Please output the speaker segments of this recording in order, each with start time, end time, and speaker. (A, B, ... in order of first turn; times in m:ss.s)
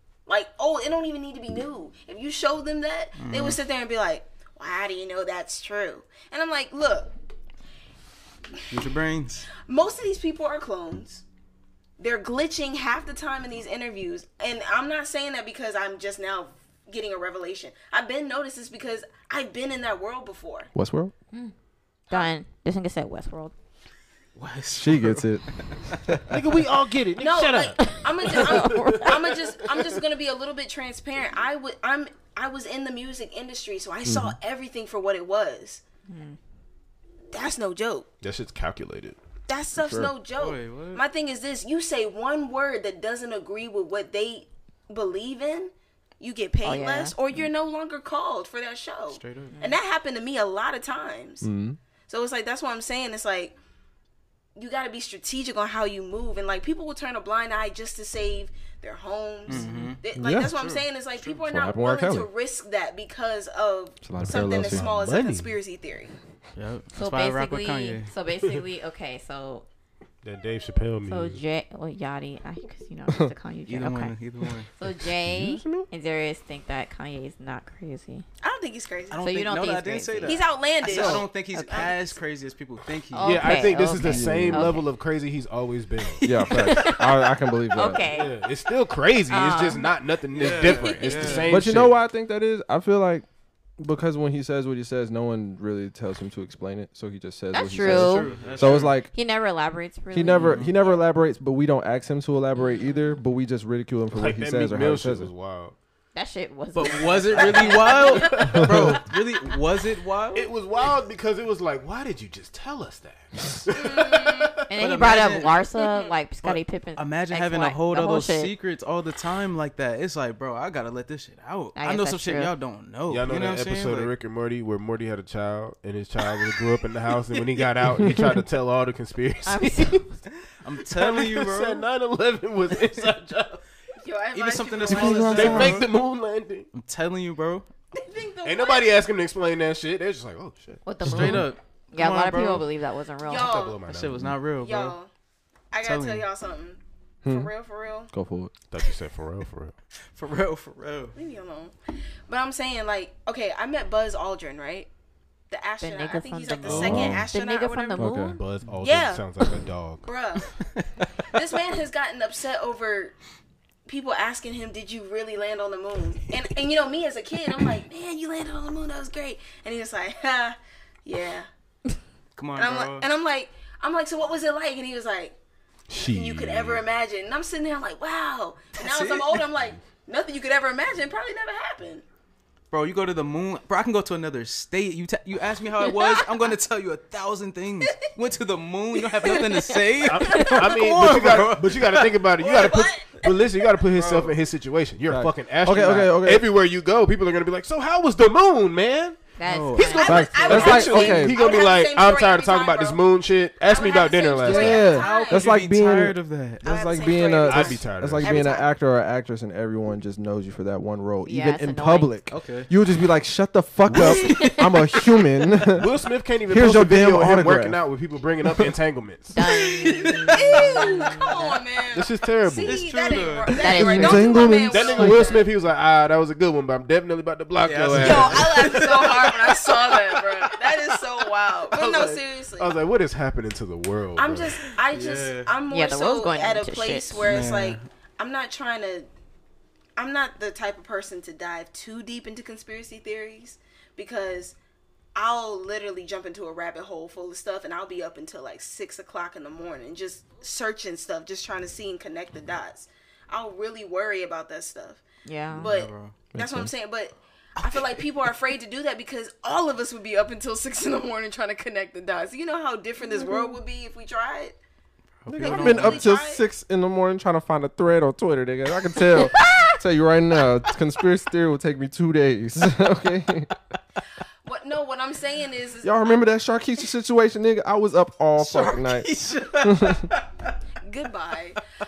0:00.3-0:07.1 A
0:03.2-0:03.6 B
0:08.7-0:09.5 B
0:09.7-0:11.2 A
0:12.0-0:20.7 A
0:20.7-0:21.1 C
0:22.1-0:23.5 D
0:24.4-0:26.0 B
0:24.7-0:26.4 C
0:26.3-0:28.0 E
0:27.2-0:35.8 A
0:27.8-0:29.2 D
0:28.6-0:29.1 E
0:34.0-0:34.4 C
0:36.1-0:36.4 D
0:37.3-0:38.1 A
0:38.2-0:39.2 E
0:39.5-0:51.5 A
0:39.8-0:40.1 C
0:40.4-0:41.0 B
0:46.6-0:47.1 D
0:49.1-0:49.6 B
0:51.4-0:51.8 C
0:52.1-0:53.6 A
0:54.6-1:06.1 A
0:59.5-1:00.0 B
1:00.2-1:00.6 C
1:01.2-1:02.3 C
1:04.0-1:04.8 C
1:04.2-1:05.6 E
1:06.6-1:08.1 B
1:07.0-1:09.6 D
1:10.2-1:11.4 E
1:11.1-1:14.2 D
1:13.7-1:14.7 B
1:14.8-1:18.2 D
1:15.0-1:15.9 E
1:18.4-1:19.2 A
1:19.1-1:23.6 B
1:19.2-1:20.4 D
1:20.2-1:22.2 A
1:21.0-1:22.0 D
1:23.1-1:24.9 D
1:23.2-1:26.2 E
1:23.8-1:24.7 C
1:26.1-1:27.0 B
1:26.2-1:28.0 C
1:26.6-1:27.1 D
1:27.7-1:28.4 D
1:28.0-1:32.0 E
1:29.3-1:29.9 D
1:30.3-1:31.5 B
1:30.6-1:31.2 A
1:31.1-1:31.4 D
1:31.5-1:33.3 C
1:33.8-1:39.1 C
1:37.5-1:38.3 D
1:37.8-1:39.0 B
1:38.4-1:38.9 E
1:39.1-1:40.7 D
1:40.1-1:45.3 C
1:40.3-1:40.7 B
1:42.6-1:43.0 D
1:44.1-1:45.8 E
1:46.2-1:48.7 D
1:46.8-1:50.5 B
1:47.6-1:49.0 E
1:48.6-1:49.0 C
1:50.3-1:54.6 E
1:53.7-1:54.6 A
1:54.7-1:58.5 D
1:54.8-1:55.6 B
1:55.8-1:56.2 A
1:56.4-2:04.1 B
2:01.8-2:02.5 D
2:03.1-2:10.0 E
2:08.0-2:08.4 C
2:09.5-2:10.2 D
2:10.6-2:11.9 B
2:11.0-2:13.6 E
2:14.0-2:15.7 A
2:14.3-2:15.9 B
2:14.9-2:15.9 C
2:15.2-2:16.7 E
2:16.7-2:17.7 B
2:17.9-2:18.9 A
2:18.4-2:20.8 E
2:20.9-2:23.5 D
2:21.0-2:21.5 C
2:21.0-2:22.7 B
2:23.2-2:23.8 A
2:23.4-2:24.4 E
2:23.8-2:25.0 B
2:24.6-2:25.1 A
2:25.7-2:28.1 A
2:25.8-2:26.3 B
2:27.2-2:27.5 C
2:28.1-2:28.5 C
2:28.7-2:29.7 E
2:30.1-2:31.2 B
2:31.2-2:31.8 A
2:32.3-2:34.9 A
2:35.5-2:38.1 A
2:35.8-2:38.4 D
2:36.6-2:37.2 E
2:36.7-2:37.2 C
2:38.0-2:38.4 C
2:38.2-2:40.1 E
2:38.8-2:39.2 A
2:40.0-2:40.5 A
2:40.6-2:41.4 B
2:41.3-2:43.2 A
2:43.9-2:51.5 A
2:52.4-2:53.1 B
2:52.6-2:55.4 A
2:55.9-2:56.8 E
2:56.1-3:02.0 A
2:58.8-2:59.5 B
3:02.7-3:12.2 B
3:09.1-3:10.8 A
3:10.0-3:19.2 E
3:12.4-3:13.7 A
3:13.9-3:14.4 B
3:15.1-3:16.5 C
3:19.4-3:20.2 D
3:19.5-3:20.0 B
3:19.7-3:25.0 E
3:19.8-3:23.0 A
3:20.0-3:21.4 C
3:23.6-3:25.5 A
3:24.4-3:35.9 C
3:24.9-3:26.7 B
3:26.6-3:28.7 A
3:27.4-3:28.4 E
3:31.3-3:32.1 D
3:32.3-3:32.7 B
3:33.9-3:34.4 E
3:33.9-3:35.1 B
3:35.7-3:39.5 E
3:36.5-3:37.8 C
3:38.4-3:38.7 C
3:39.3-3:41.6 D
3:39.4-3:41.2 B
3:40.3-3:45.5 A
3:41.9-3:42.8 E
3:42.6-3:44.3 B
3:43.6-3:44.2 D
3:43.6-3:45.3 C
3:44.7-3:48.9 E
3:47.6-3:50.9 B
3:48.0-3:52.8 A
3:51.7-3:54.7 E
3:54.2-3:59.1 A
3:54.7-3:55.5 B
3:55.7-3:57.3 D
3:57.2-3:57.8 B
4:00.0-4:04.6 A
4:05.2-4:15.0 A
4:15.2-4:15.7 D
4:15.5-4:16.2 B
4:15.6-4:24.6 A
4:16.4-4:16.7 C
4:25.2-4:26.1 B
4:25.3-4:33.5 C
4:25.4-4:26.4 A
4:34.4-4:36.2 A
4:35.8-4:40.1 C
4:38.5-4:38.8 A
4:38.8-4:40.5 B
4:40.8-4:41.6 A